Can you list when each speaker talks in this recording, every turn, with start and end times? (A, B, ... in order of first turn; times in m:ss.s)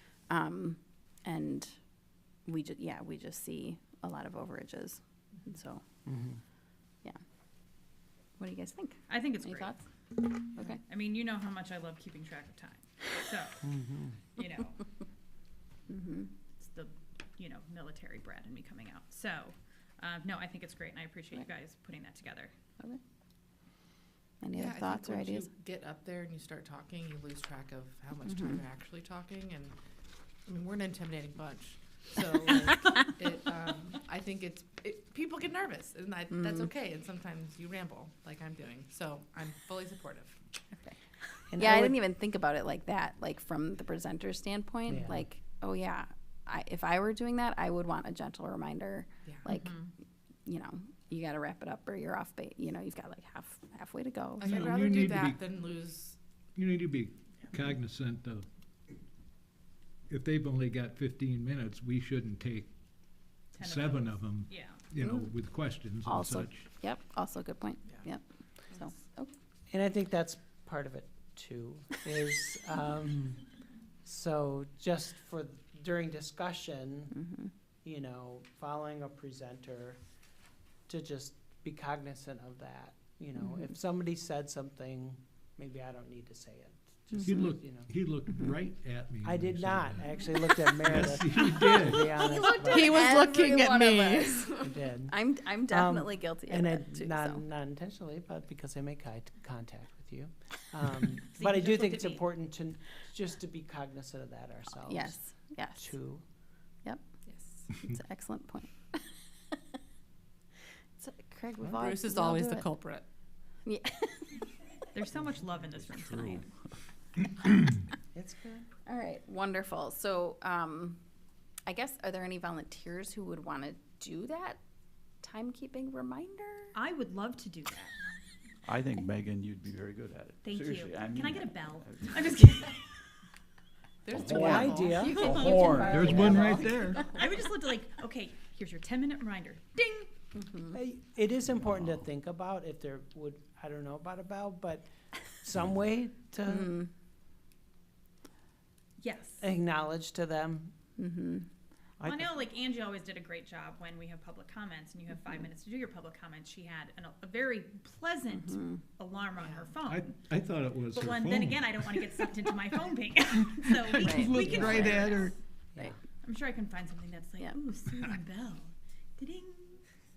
0:00.3-0:01.7 A
0:02.5-0:05.8 A
0:06.0-0:06.4 B
0:08.4-0:09.8 A
0:09.1-0:09.8 C
0:10.8-0:13.6 C
0:13.6-0:14.2 B
0:14.4-0:14.8 C
0:15.9-0:16.3 A
0:16.6-0:22.5 C
0:24.4-0:25.5 A
0:24.5-0:29.8 D
0:28.3-0:28.6 A
0:30.4-0:40.4 D
0:41.5-0:42.0 B
0:41.6-0:49.7 A
0:44.9-0:45.2 B
0:49.5-0:49.9 C
0:50.5-0:54.7 A
0:54.4-0:56.2 D
0:54.5-0:55.4 E
0:56.6-0:58.5 E
1:00.1-1:02.7 E
1:03.6-1:06.6 E
1:03.6-1:04.8 C
1:05.0-1:05.3 A
1:06.0-1:09.3 A
1:09.7-1:13.4 B
1:14.0-1:17.2 B
1:17.2-1:17.5 A
1:17.8-1:20.0 B
1:20.9-1:27.9 B
1:27.2-1:32.2 E
1:29.2-1:33.2 B
1:32.2-1:34.6 A
1:32.2-1:34.7 D
1:34.6-1:45.2 B
1:35.1-1:37.4 A
1:41.3-1:42.2 C
1:44.8-1:45.9 A
1:45.8-1:46.2 B
1:47.2-1:47.6 D
1:47.7-1:49.6 A
1:51.0-1:52.7 A
1:51.6-1:53.0 D
1:53.6-1:54.4 A
1:54.9-1:56.5 C
1:55.9-1:56.5 F
1:58.1-1:58.7 B
1:58.9-2:01.0 A
2:01.7-2:04.6 A
2:05.2-2:06.7 A
2:06.7-2:08.0 C
2:08.6-2:12.5 F
2:10.4-2:12.8 C
2:14.0-2:17.1 D
2:14.1-2:16.8 F
2:14.3-2:15.2 B
2:15.2-2:15.7 C
2:15.8-2:17.1 E
2:17.0-2:20.1 C
2:20.4-2:20.7 A
2:20.7-2:26.8 B
2:26.5-2:26.9 A
2:29.0-2:29.4 C
2:29.4-2:30.7 B
2:31.0-2:31.5 A
2:32.0-2:40.2 C
2:38.3-2:38.8 A
2:39.4-2:39.8 D
2:39.8-2:42.0 E
2:40.9-2:45.3 C
2:43.8-2:45.3 E
2:44.0-2:45.0 A
2:44.4-2:44.9 B
2:46.2-2:49.8 C